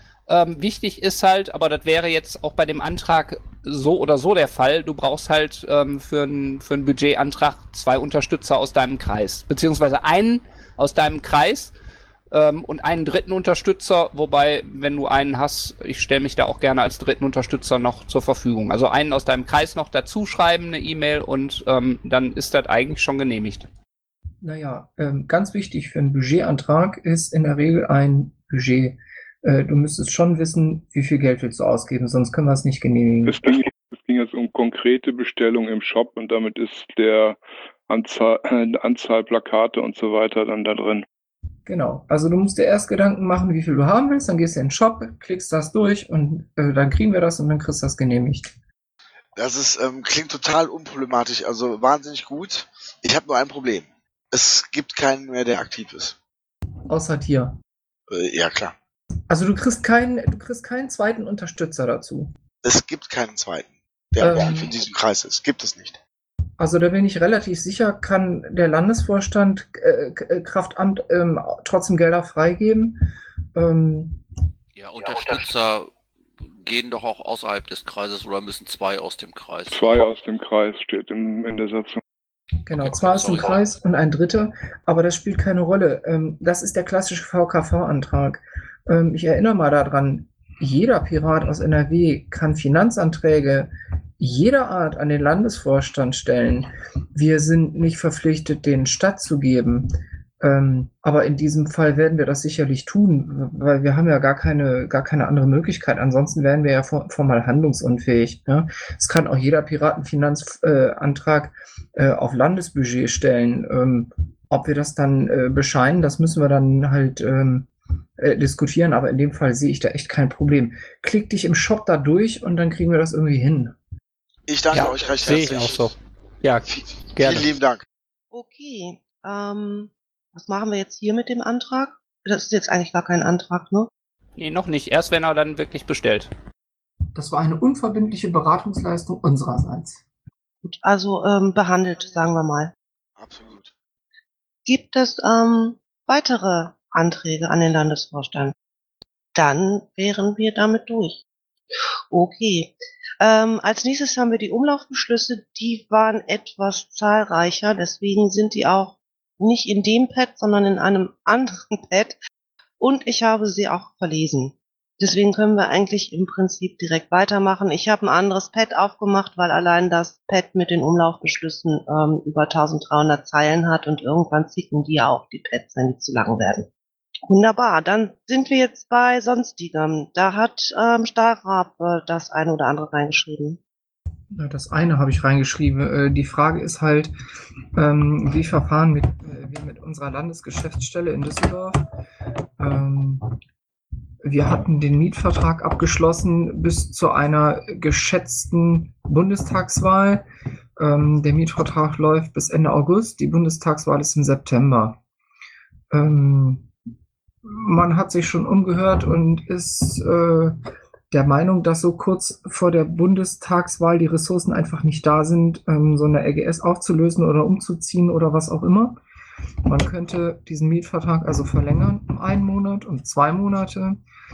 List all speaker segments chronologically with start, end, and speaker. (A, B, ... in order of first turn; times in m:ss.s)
0:00.3-0:11.7 A
0:12.3-0:23.7 A
0:24.4-0:33.4 B
0:33.2-0:41.1 C
0:41.7-0:48.5 B
0:49.4-0:56.2 D
0:56.9-0:57.6 B
0:58.1-0:58.7 D
0:59.3-1:02.3 B
1:02.6-1:06.0 D
1:04.2-1:04.7 B
1:06.6-1:13.0 B
1:13.6-1:14.2 B
1:14.8-1:15.9 E
1:16.4-1:20.0 E
1:19.7-1:22.0 C
1:22.7-1:39.9 B
1:22.8-1:23.6 E
1:40.4-2:03.8 B
2:04.5-2:06.0 D
2:04.7-2:07.5 A
2:06.7-2:07.9 D
2:08.3-2:13.9 F
2:14.4-2:16.3 A
2:17.2-2:20.0 B
2:20.6-2:22.7 F
2:23.2-2:23.7 D
2:24.7-2:28.5 F
2:29.4-2:31.2 F
2:32.1-2:42.2 F
2:42.8-2:56.7 F
2:57.3-3:03.6 F
3:04.3-3:07.1 B
3:07.8-3:11.8 B
3:12.6-3:13.2 B
3:14.2-3:20.3 B
3:20.8-3:25.0 B
3:25.9-3:26.7 B
3:27.4-3:30.6 B
3:31.1-3:39.0 B
3:39.7-3:44.0 B